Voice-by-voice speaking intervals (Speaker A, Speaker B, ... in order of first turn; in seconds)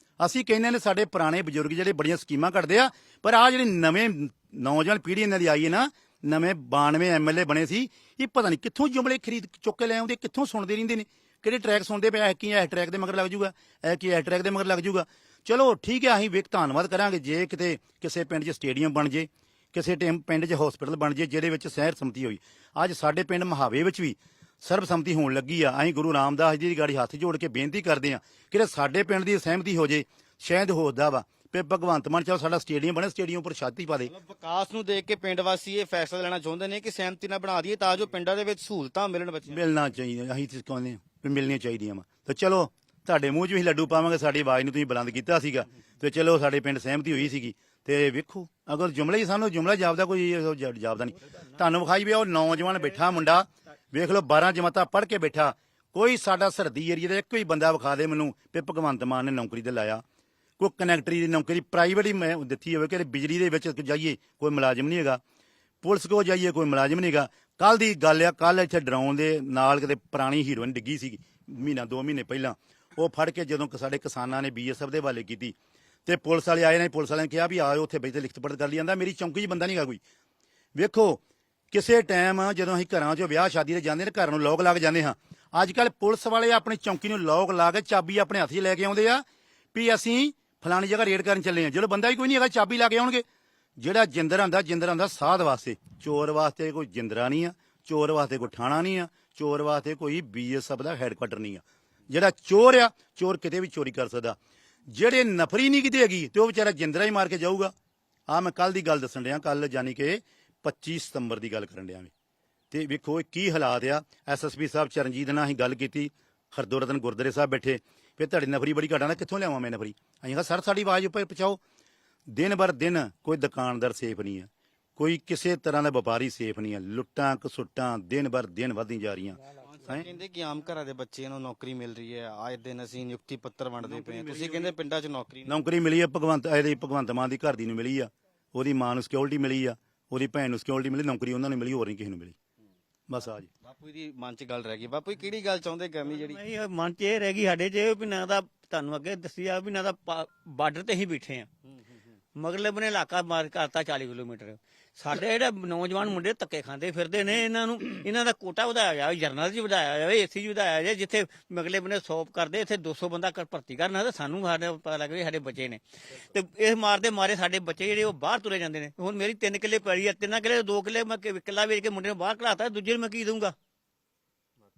Speaker A: 0.2-34.1, 39.5-60.0, 60.6-65.2, 65.8-75.5, 76.0-80.0, 80.8-81.2, 81.7-89.2, 89.7-93.2, 93.8-104.4, 104.9-107.7, 108.3-112.1, 112.7-121.6, 122.3-130.0, 133.8-134.7, 135.5-142.3, 143.1-143.5
Speaker B: 34.1-39.6, 129.6-135.5, 143.6-146.4
Speaker C: 146.2-151.5, 152.3-173.5